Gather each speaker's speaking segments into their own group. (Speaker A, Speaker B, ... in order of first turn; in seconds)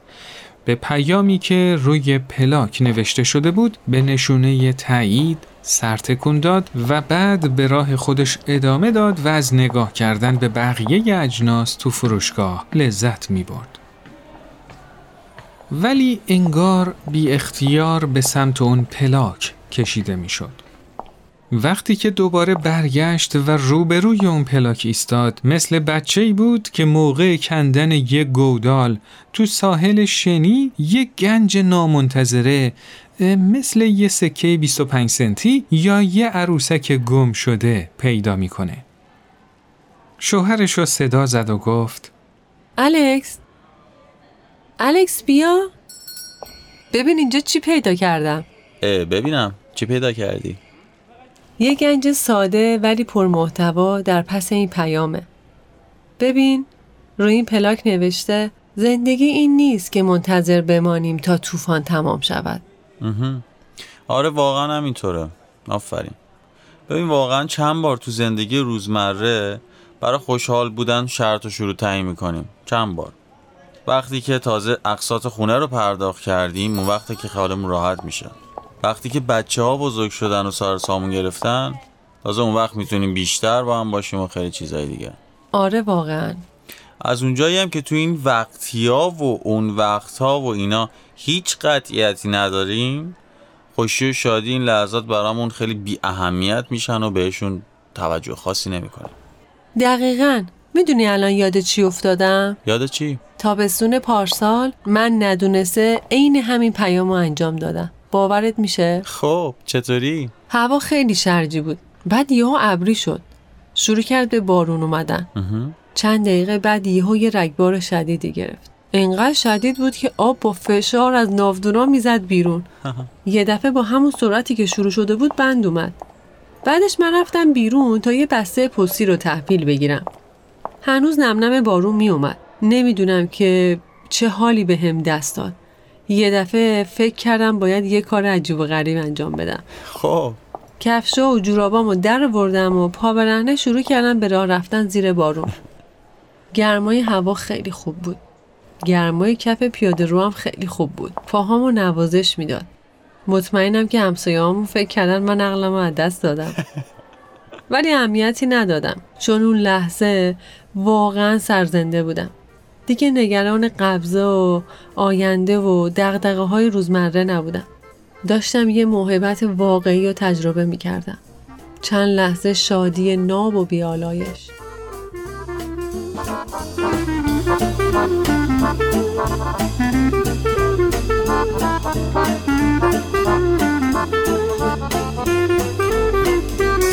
Speaker A: 0.7-13.8, 15.7-20.6, 21.5-38.9, 40.2-42.1
Speaker B: 42.8-43.4, 44.8-45.7, 46.9-48.5, 51.6-55.3, 56.2-56.7, 57.2-62.6, 85.5-86.5, 99.8-102.6, 103.4-109.0, 110.5-115.3, 116.0-122.7, 123.3-126.0, 126.6-130.1, 130.8-135.6, 136.1-139.6, 140.8-145.5, 146.5-148.2, 148.8-152.7, 153.3-156.6, 157.7-162.3, 162.9-167.7, 168.2-171.2, 171.8-174.5
Speaker C: 48.8-50.6, 63.0-63.5, 64.1-66.2, 66.9-73.2, 73.9-85.2, 87.0-93.2, 93.8-99.1, 102.7-103.2, 109.1-110.3, 115.4-115.8, 122.8-123.1, 139.9-140.4